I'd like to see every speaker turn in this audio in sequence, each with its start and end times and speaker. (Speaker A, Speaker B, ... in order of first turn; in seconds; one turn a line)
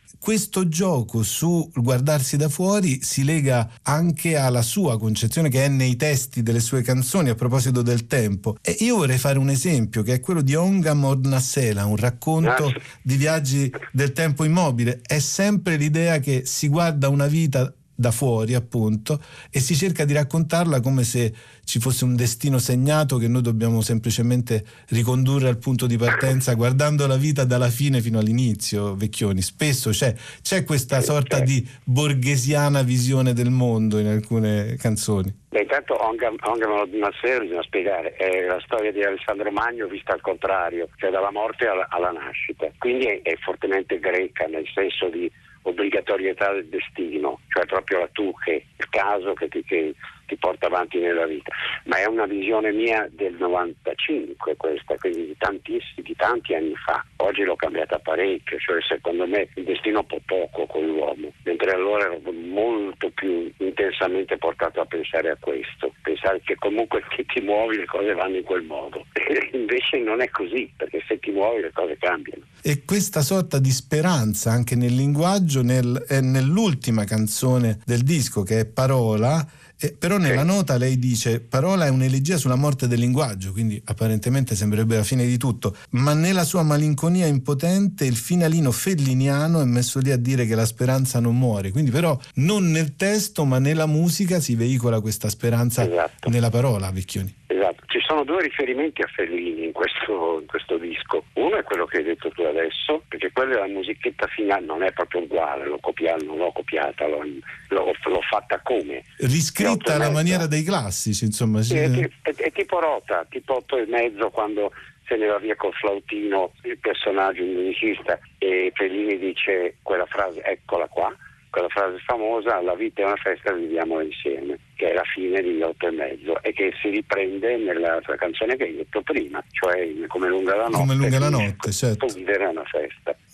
Speaker A: 0.2-35.4
Speaker B: 30.9-31.4
Speaker B: 35.5-72.4
Speaker A: 72.6-97.3
Speaker B: 95.8-96.3
Speaker B: 97.5-109.0
Speaker A: 109.2-112.0
Speaker B: 109.6-110.4
Speaker B: 111.7-133.1
Speaker A: 130.7-132.1